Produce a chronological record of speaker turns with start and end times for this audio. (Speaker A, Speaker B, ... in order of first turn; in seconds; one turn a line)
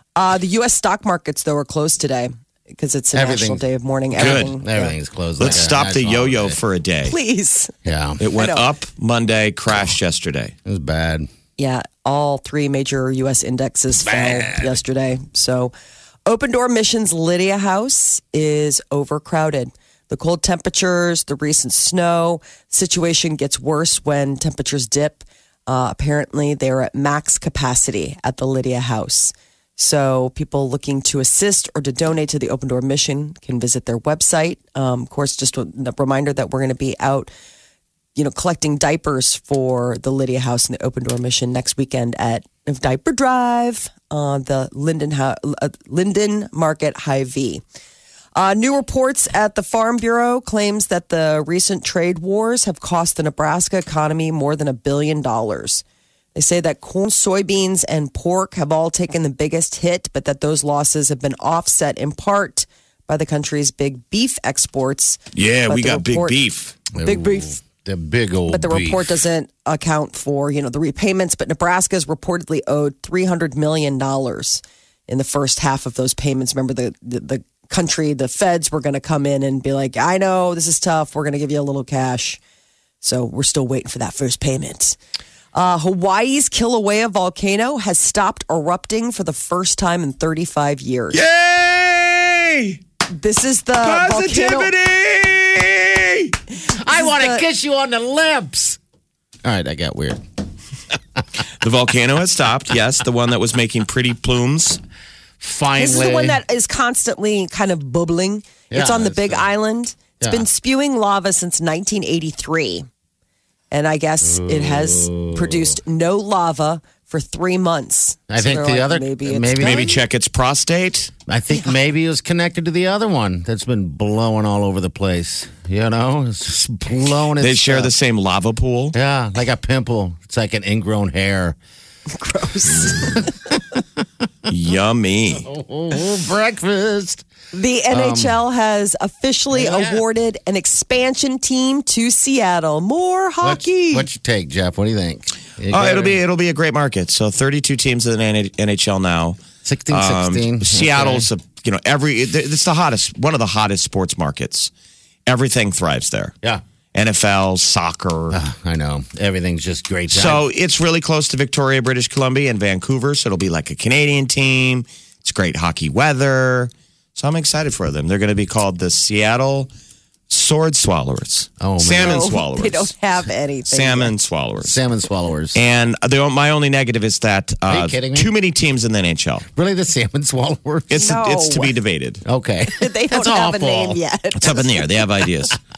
Speaker A: 0.1-4.9
Speaker B: 3.1-6.6
Speaker C: 4.2-4.5
Speaker C: 5.4-7.1
Speaker A: 7.0-7.7
Speaker B: 7.8-8.2
Speaker C: 8.2-10.5
Speaker A: 8.3-8.7
Speaker B: 10.7-11.3
Speaker A: 11.6-15.7
Speaker B: 13.9-14.8
Speaker A: 16.2-37.3
Speaker A: 38.1-47.6
Speaker A: 48.3-55.8
Speaker A: 56.3-66.4
Speaker C: 65.3-66.8
Speaker B: 66.9-69.2
Speaker A: 67.0-67.6
Speaker A: 68.5-82.4
Speaker A: 83.0-85.0
Speaker A: 85.5-91.2
Speaker C: 91.1-92.8
Speaker A: 93.1-94.7
Speaker C: 93.8-96.3
Speaker B: 96.7-98.8
Speaker A: 96.9-97.4
Speaker B: 99.4-100.2
Speaker C: 101.6-104.8
Speaker B: 105.4-106.4
Speaker A: 105.8-112.9
Speaker B: 108.7-109.5
Speaker B: 110.2-110.5
Speaker A: 113.7-119.9
Speaker B: 114.2-115.8
Speaker B: 118.3-120.0
Speaker C: 119.6-121.1
Speaker B: 121.3-127.9
Speaker C: 127.4-128.9
Speaker B: 128.9-131.6
Speaker A: 132.1-133.3
Speaker C: 134.5-135.4
Speaker B: 135.3-137.2
Speaker A: 137.5-144.1
Speaker B: 137.9-138.4
Speaker B: 139.5-140.0
Speaker B: 143.4-146.2
Speaker C: 145.7-149.4
Speaker B: 149.6-151.3
Speaker C: 149.9-154.7
Speaker C: 155.2-156.3
Speaker C: 156.9-158.4
Speaker B: 158.3-160.4
Speaker C: 160.1-169.7
Speaker C: 170.3-172.9
Speaker B: 171.6-172.3
Speaker A: 172.0-174.1
Speaker C: 173.7-174.8
Speaker B: 174.6-175.6
Speaker C: 175.5-179.5
Speaker B: 177.7-178.3
Speaker B: 179.5-181.2
Speaker C: 180.9-182.2
Speaker A: 180.9-181.7
Speaker B: 182.2-184.0
Speaker A: 182.7-184.8
Speaker C: 184.3-185.6